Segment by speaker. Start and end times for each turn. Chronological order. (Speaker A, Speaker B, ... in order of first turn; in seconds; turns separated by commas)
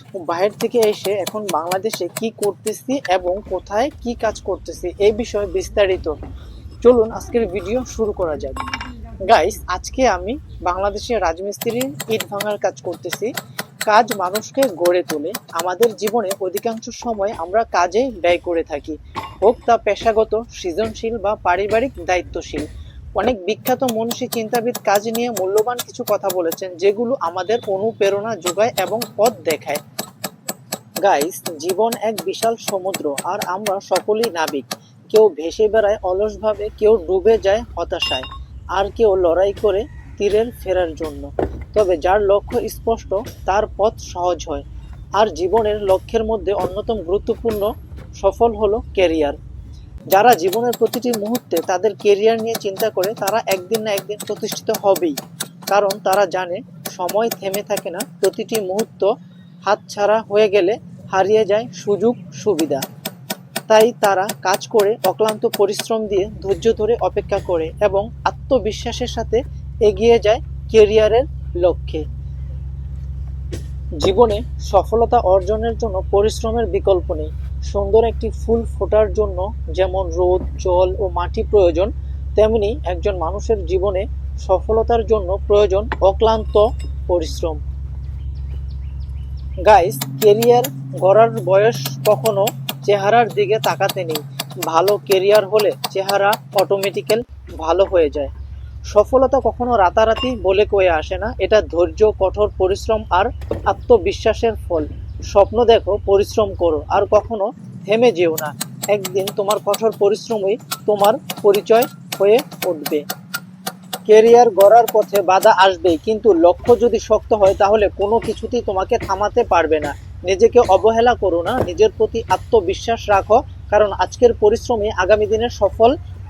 Speaker A: 0.2-6.1, Speaker A: 6.8-8.6, Speaker A: 9.2-13.3, Speaker A: 13.9-22.6, Speaker A: 23.2-29.8, Speaker A: 31.0-44.6, Speaker A: 45.2-49.4, Speaker A: 50.1-55.2, Speaker A: 55.7-59.1, Speaker A: 59.6-62.8, Speaker A: 63.7-72.0, Speaker A: 74.0-87.6, Speaker A: 89.7-98.3, Speaker A: 98.9-113.0, Speaker A: 114.0-125.9